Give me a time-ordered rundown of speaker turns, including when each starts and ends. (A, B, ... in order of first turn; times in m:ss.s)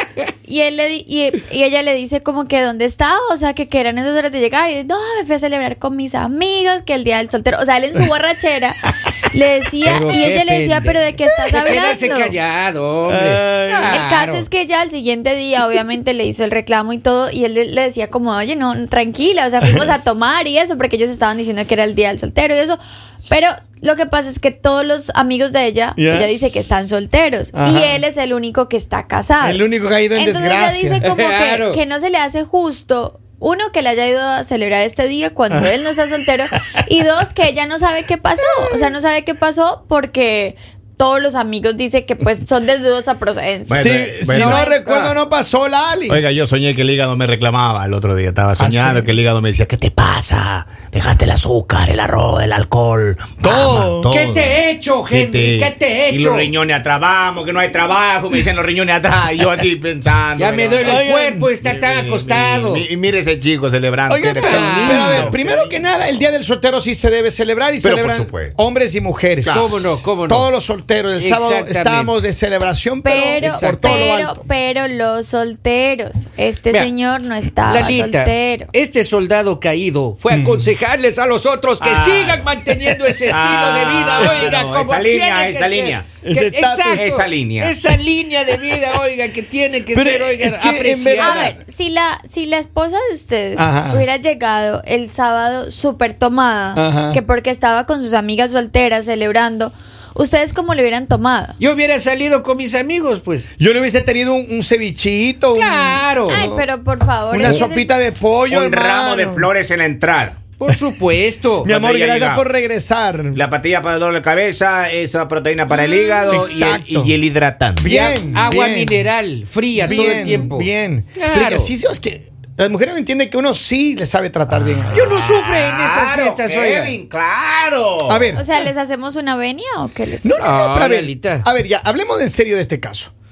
0:00.4-0:12.4 A
0:09.8-0:14.5 B
0:11.3-0:11.8 C
0:13.0-0:14.0 C
0:13.9-0:29.6 A
0:26.0-0:26.3 C
0:27.5-0:28.0 C
0:29.4-0:31.0 C
0:30.1-0:45.2 A
0:31.0-0:31.8 B
0:38.4-0:38.9 C
0:43.7-0:44.6 D
0:43.8-0:46.2 C
0:46.1-0:54.6 D
0:48.6-0:49.1 C
0:53.4-0:54.1 C
0:54.0-0:56.5 B
0:55.1-1:01.1 D
1:00.4-1:02.8 B
1:00.8-1:01.5 C
1:01.6-1:06.3 D
1:04.1-1:09.7 C
1:04.4-1:05.3 B
1:07.8-1:08.5 D
1:09.4-1:09.8 D
1:09.5-1:10.5 B
1:10.3-1:14.4 C
1:11.2-1:12.2 B
1:13.0-1:18.7 A
1:13.4-1:14.1 B
1:17.6-1:31.5 B
1:20.3-1:20.7 C
1:21.8-1:26.1 D
1:26.2-1:27.1 C
1:26.9-1:27.7 D
1:29.9-1:31.6 C
1:31.2-1:41.6 A
1:33.6-1:34.0 C
1:36.7-1:37.2 C
1:41.6-1:43.4 B
1:43.6-1:46.7 C
1:45.5-1:46.4 B
1:46.3-1:47.9 A
1:47.3-1:49.5 C
1:48.5-1:50.4 D
1:50.6-1:51.7 B
1:51.6-1:53.4 C
1:51.7-1:52.5 D
1:53.3-1:58.3 D
1:55.7-1:56.0 A
1:56.2-1:57.2 C
1:57.8-1:59.0 C
1:58.3-2:01.7 B
1:59.7-2:05.1 C
2:04.9-2:07.0 B
2:05.0-2:08.3 D
2:08.1-2:08.4 C
2:08.3-2:10.4 A
2:10.2-2:13.1 C
2:10.4-2:11.4 B